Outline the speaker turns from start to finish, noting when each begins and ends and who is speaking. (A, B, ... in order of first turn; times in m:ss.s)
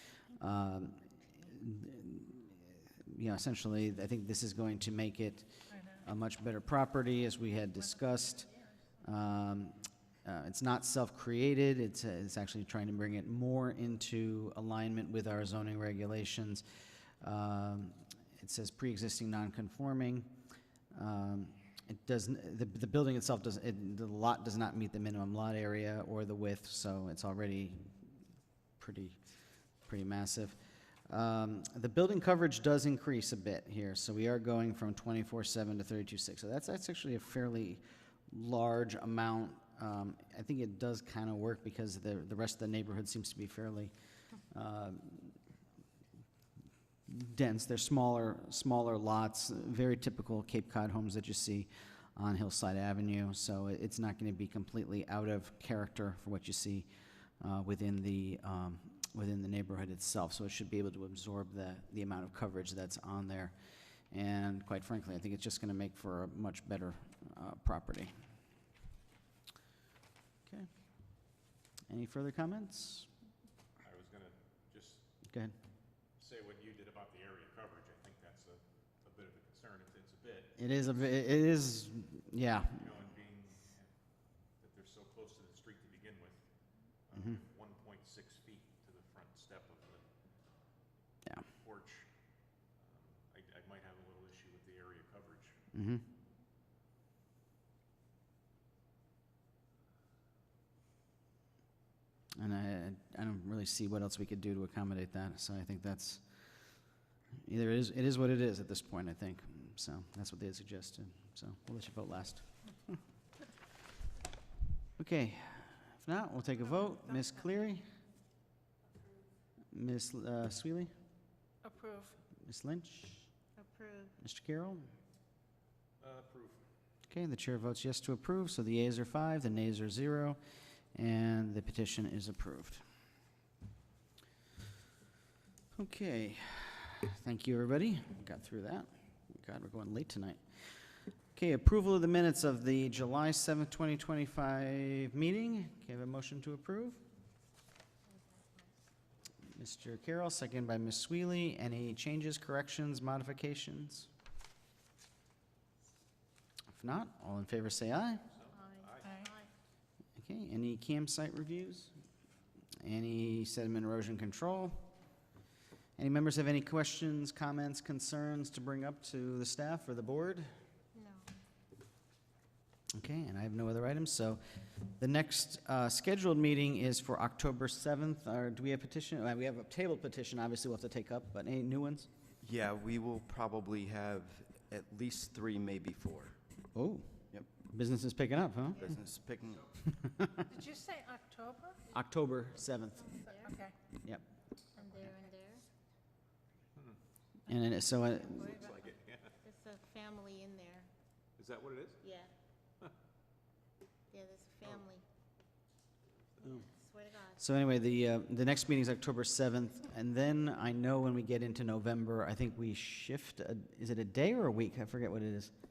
0:00.4-0:05.5 A
0:05.7-0:06.0 B
0:06.0-0:08.5 A
0:09.0-0:16.6 A
0:17.2-0:20.3 A
0:20.9-0:27.9 A
0:28.8-0:29.2 A
0:29.9-0:30.6 A
0:31.1-0:43.9 A
0:44.5-0:45.4 A
0:47.1-0:56.9 A
0:57.4-1:03.5 A
1:04.1-1:08.1 A
1:11.9-1:13.1 A
1:13.8-1:15.0 C
1:15.2-1:15.6 A
1:16.2-1:20.6 C
1:20.6-1:22.8 A
1:22.4-1:23.9 C
1:24.6-1:26.4 C
1:27.1-1:30.0 C
1:27.1-1:27.4 A
1:31.5-1:32.1 C
1:32.8-1:35.6 C
1:35.7-1:36.0 A
1:42.4-1:46.2 A
1:47.4-1:52.5 A
1:55.0-1:57.8 A
1:59.7-2:00.9 A
2:01.6-2:02.2 B
2:02.3-2:03.3 A
2:03.6-2:04.2 D
2:04.2-2:04.9 A
2:06.0-2:06.6 C
2:07.1-2:10.4 A
2:10.9-2:12.8 A
2:15.7-2:20.4 A
2:21.3-2:27.0 A
2:28.1-2:28.7 D
2:29.5-2:34.1 A
2:36.7-2:38.2 A
2:38.3-2:39.1 C
2:38.5-2:39.5 D
2:39.0-2:39.3 B
2:40.2-2:41.9 A
2:42.8-2:44.9 A
2:46.0-2:50.5 A
2:50.9-2:51.3 D
2:52.9-2:54.4 A
2:55.0-3:02.1 A
3:02.4-3:06.4 E
3:06.7-3:09.0 A
3:08.8-3:09.7 E
3:09.9-3:10.5 A
3:10.5-3:11.8 B
3:11.9-3:13.0 A
3:12.9-3:13.6 D
3:13.4-3:13.7 B
3:14.7-3:15.6 D
3:17.5-3:18.5 A
3:18.1-3:20.9 D
3:18.4-3:19.3 C
3:21.4-3:22.0 C
3:22.0-3:22.3 D
3:24.1-3:25.0 D
3:26.4-3:27.4 D
3:27.4-3:35.5 A